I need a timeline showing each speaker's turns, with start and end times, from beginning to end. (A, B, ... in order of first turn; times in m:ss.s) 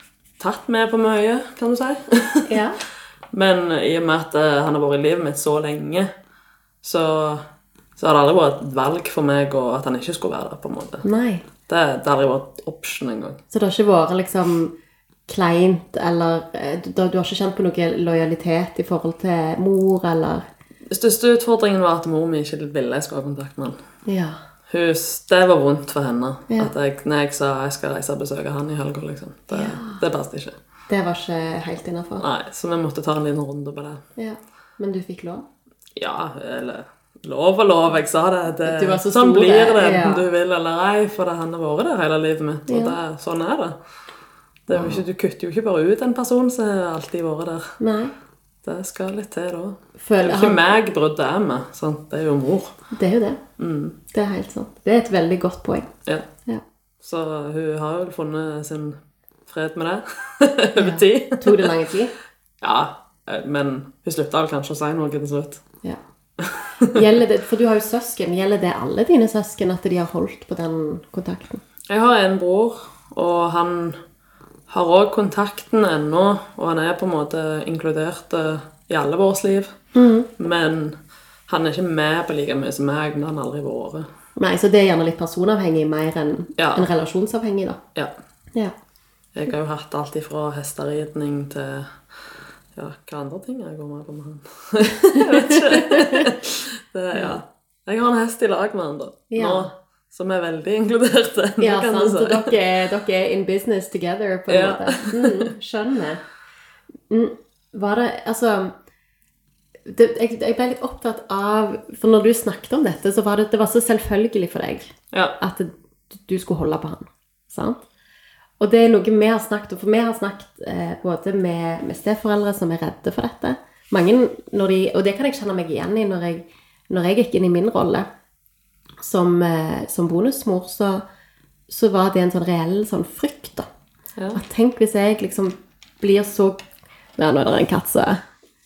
0:00.4-0:02.6 A
0:02.5-0:02.8 B
0:03.3-0:06.1 A
0:06.8-0:07.4 A
0:08.0-0:11.0 A
0:11.0-0:11.4 B
0:11.7-0:13.4 A
0:13.5-0:14.8 B
0:15.3-0:20.4 B
0:20.9-0:23.8 A
0:24.1-0:24.4 B
0:24.7-0:30.6 A
0:29.5-0:30.0 B
0:30.9-0:32.3 B
0:32.2-0:34.0 A
0:34.2-0:35.5 B
0:36.0-0:43.8 A
0:38.6-0:40.2 B
0:42.7-0:43.0 B
0:44.7-0:47.8 A
0:44.7-0:45.0 B
0:47.8-0:48.2 B
0:48.6-0:52.8 A
0:50.0-0:50.6 B
0:52.9-0:53.4 B
0:53.6-0:54.0 A
0:54.1-0:55.9 B
0:57.0-1:01.8 A
1:00.8-1:02.2 B
1:02.6-1:05.6 A
1:06.4-1:07.1 A
1:06.8-1:11.6 B
1:11.9-1:14.0 A
1:14.7-1:19.8 A
1:19.9-1:20.3 B
1:20.4-1:24.1 A
1:24.4-1:27.8 B
1:26.6-1:26.9 A
1:29.4-1:32.0 A
1:32.8-1:42.6 A
1:35.2-1:36.3 B
1:39.3-1:39.7 B
1:41.6-1:46.2 B
1:44.5-1:45.5 A
1:47.1-1:48.8 B
1:49.9-1:57.8 B
1:55.1-1:55.4 A
1:58.6-2:08.1 B
2:09.0-2:11.0 B
2:11.7-2:13.7 B
2:14.3-2:16.6 B
2:17.2-2:18.2 B